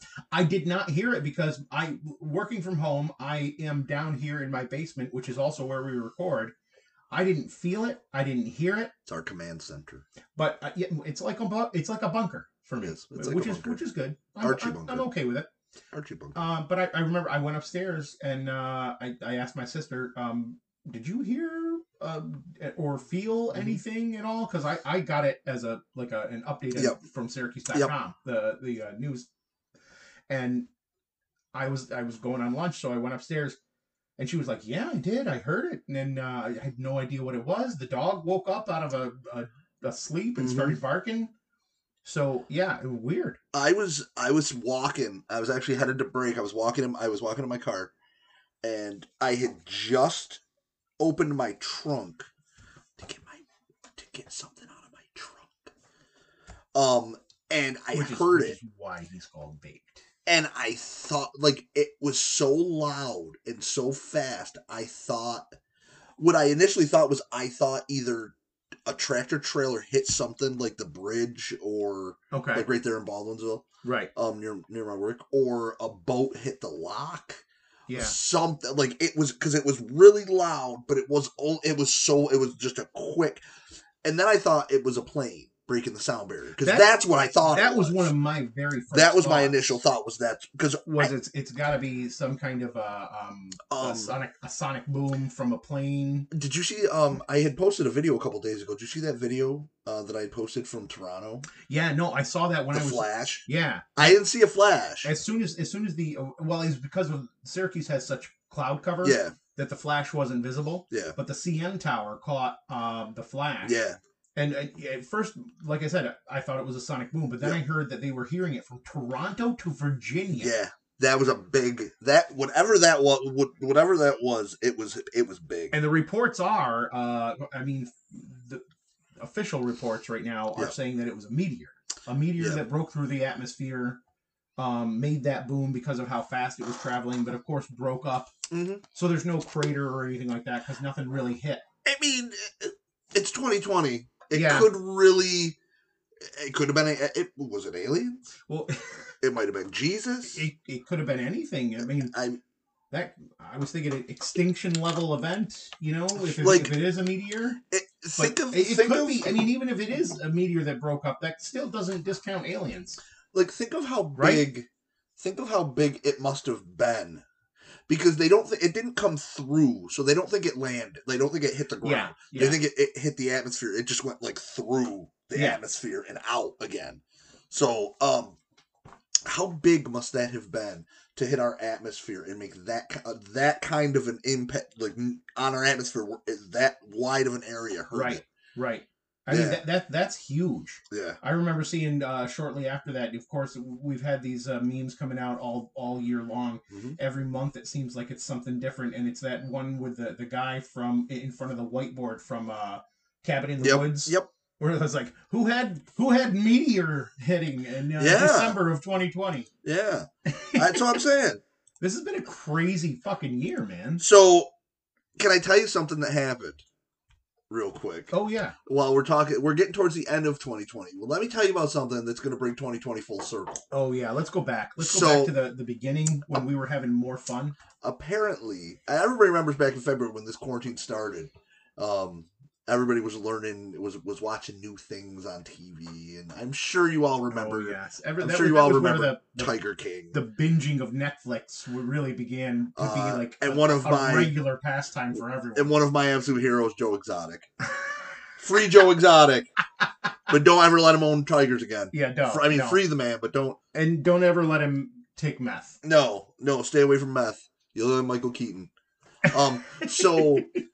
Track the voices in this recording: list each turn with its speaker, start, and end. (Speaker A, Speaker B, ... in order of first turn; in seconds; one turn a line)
Speaker A: 0.3-6.5
Speaker A: 7.1-8.9
Speaker B: 9.1-10.0
Speaker A: 10.4-15.5
Speaker B: 12.8-13.8
Speaker B: 14.4-15.1
Speaker B: 15.9-16.4
Speaker A: 16.3-29.3
Speaker B: 23.5-23.8
Speaker A: 30.3-30.7
Speaker A: 31.5-33.6
Speaker A: 34.2-41.3
Speaker B: 40.4-40.8
Speaker A: 42.0-43.4
Speaker B: 43.5-47.9
Speaker B: 48.6-50.4
Speaker B: 51.0-52.3
Speaker B: 53.0-55.7
Speaker B: 56.7-58.6
Speaker A: 57.9-60.0
Speaker B: 60.3-65.5
Speaker B: 66.2-68.3
Speaker B: 68.9-83.4
Speaker A: 72.3-72.7
Speaker A: 73.8-74.1
Speaker A: 77.9-78.2
Speaker B: 84.0-88.1
Speaker A: 86.6-89.8
Speaker B: 88.9-91.1
Speaker A: 90.9-96.3
Speaker B: 93.7-94.2
Speaker B: 96.3-101.5
Speaker A: 101.7-104.2
Speaker B: 102.7-103.4
Speaker B: 104.0-105.1
Speaker A: 105.0-113.8
Speaker B: 109.0-109.4
Speaker B: 110.9-111.2
Speaker B: 113.6-114.0
Speaker A: 114.4-120.5
Speaker B: 120.4-125.8
Speaker A: 125.7-128.6
Speaker A: 129.2-134.0
Speaker B: 132.4-132.6
Speaker A: 134.6-138.3
Speaker B: 138.5-138.8
Speaker A: 138.9-141.6
Speaker B: 141.8-145.6
Speaker A: 144.3-144.7
Speaker B: 146.2-148.2
Speaker A: 148.5-149.1
Speaker B: 149.2-150.5
Speaker A: 150.3-152.1
Speaker B: 152.0-152.4
Speaker A: 152.9-157.6
Speaker B: 156.2-156.8
Speaker B: 157.7-159.5
Speaker A: 158.2-163.0
Speaker B: 163.3-167.2
Speaker A: 164.2-164.5
Speaker B: 167.9-178.4
Speaker A: 171.8-172.6
Speaker A: 175.3-175.6
Speaker B: 179.2-188.2
Speaker A: 187.9-209.5
Speaker B: 189.3-189.6
Speaker B: 190.9-191.2
Speaker B: 196.7-197.0
Speaker B: 203.6-204.3
Speaker B: 208.0-208.6
Speaker B: 209.6-211.4
Speaker A: 210.3-211.0
Speaker A: 211.8-214.0
Speaker B: 214.0-214.5
Speaker B: 215.2-216.6
Speaker B: 217.5-218.1
Speaker A: 218.1-218.6
Speaker B: 218.7-223.7
Speaker A: 223.7-227.6
Speaker B: 224.8-225.3
Speaker B: 227.8-240.2
Speaker A: 237.3-239.6
Speaker A: 240.1-245.8
Speaker B: 242.8-244.3
Speaker B: 245.6-247.5
Speaker B: 248.4-249.5
Speaker B: 250.3-253.6
Speaker A: 251.9-252.8
Speaker A: 253.7-255.8
Speaker B: 255.8-258.7
Speaker B: 259.3-260.5
Speaker A: 259.3-260.6